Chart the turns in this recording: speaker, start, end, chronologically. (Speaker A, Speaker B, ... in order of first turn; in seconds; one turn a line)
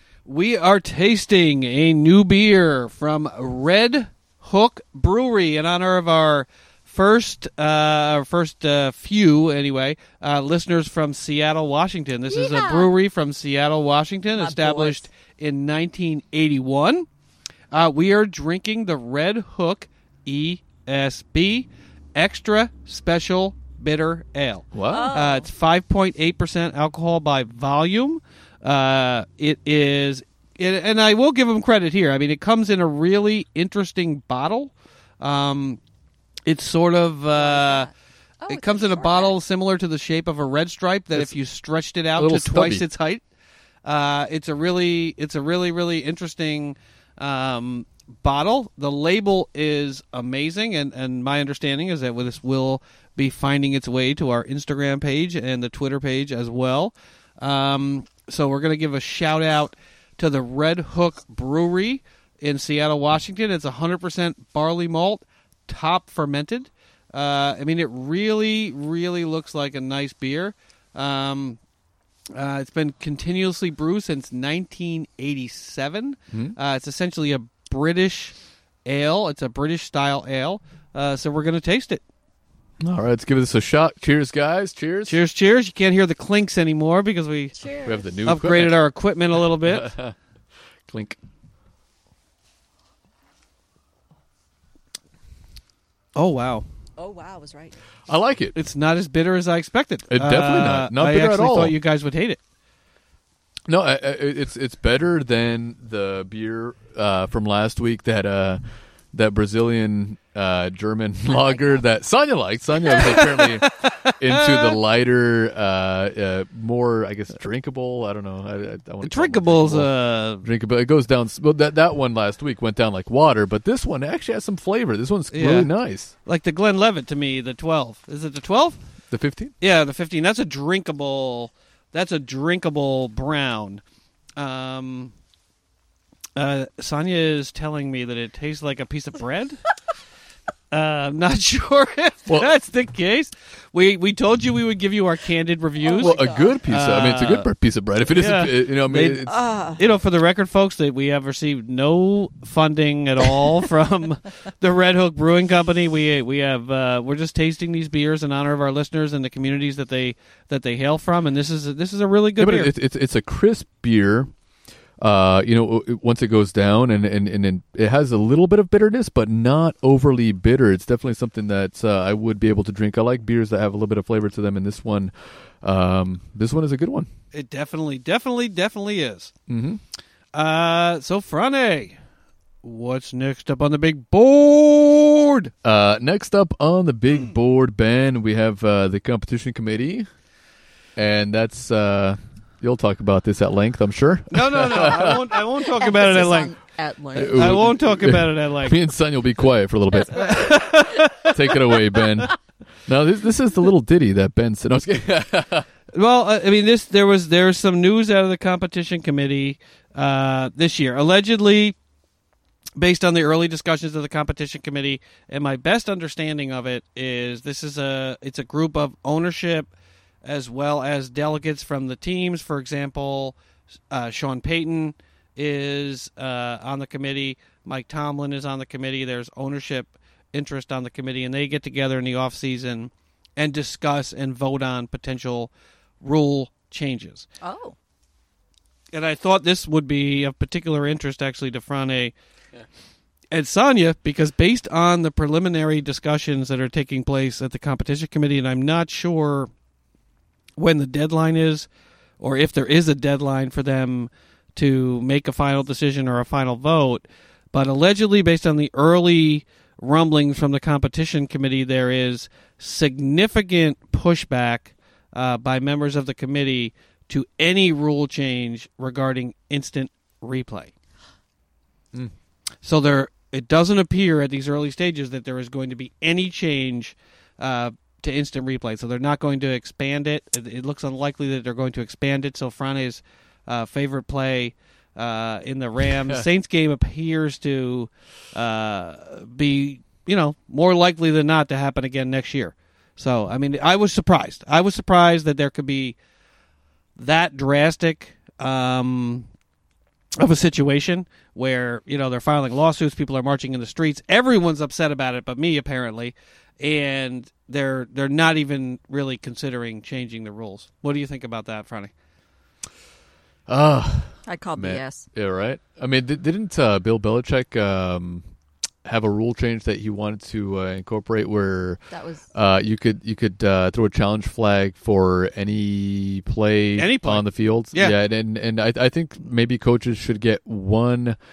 Speaker A: 0.2-17.1
Speaker B: 12.3-12.9
Speaker B: 14.3-15.1
Speaker A: 17.7-35.8
Speaker C: 24.7-25.1
Speaker B: 24.9-25.5
Speaker A: 36.5-37.9
Speaker B: 37.3-39.4
Speaker A: 38.5-43.2
Speaker C: 42.1-42.8
Speaker A: 43.8-71.6
Speaker A: 72.3-82.0
Speaker C: 82.8-85.2
Speaker A: 85.0-87.6
Speaker B: 87.5-88.2
Speaker C: 87.8-88.8
Speaker A: 88.2-89.9
Speaker C: 89.6-90.2
Speaker C: 90.9-91.2
Speaker A: 96.1-96.6
Speaker B: 97.0-97.8
Speaker C: 98.1-98.5
Speaker A: 98.5-102.4
Speaker C: 100.1-101.8
Speaker C: 103.7-108.6
Speaker C: 109.1-126.1
Speaker B: 111.3-111.8
Speaker A: 113.0-114.8
Speaker A: 119.0-120.4
Speaker A: 125.3-125.7
Speaker A: 126.2-128.8
Speaker C: 129.1-129.5
Speaker A: 129.6-133.8
Speaker A: 134.4-135.1
Speaker A: 136.3-139.6
Speaker A: 140.7-147.5
Speaker B: 145.8-146.6
Speaker C: 146.0-149.4
Speaker A: 148.1-162.7
Speaker B: 149.3-149.8
Speaker C: 162.4-164.3
Speaker C: 165.0-177.1
Speaker A: 177.3-179.3
Speaker C: 179.5-179.8
Speaker A: 180.3-182.0
Speaker A: 182.6-185.5
Speaker C: 185.6-190.1
Speaker C: 190.9-195.3
Speaker A: 194.3-196.5
Speaker B: 195.6-197.7
Speaker C: 197.1-200.5
Speaker A: 197.3-198.8
Speaker A: 200.1-201.4
Speaker C: 201.2-202.3
Speaker C: 202.9-205.7
Speaker A: 205.9-211.7
Speaker A: 212.8-219.7
Speaker A: 220.2-223.3
Speaker A: 223.9-237.3
Speaker B: 237.4-237.8
Speaker A: 238.9-242.1
Speaker A: 243.3-249.5
Speaker A: 250.6-251.7
Speaker A: 252.2-270.7
Speaker A: 272.6-296.0
Speaker A: 296.9-299.3
Speaker A: 300.2-311.9
Speaker C: 313.5-318.2
Speaker B: 314.2-315.1
Speaker C: 318.8-321.8
Speaker B: 321.9-322.3
Speaker C: 322.3-331.2
Speaker A: 326.8-327.9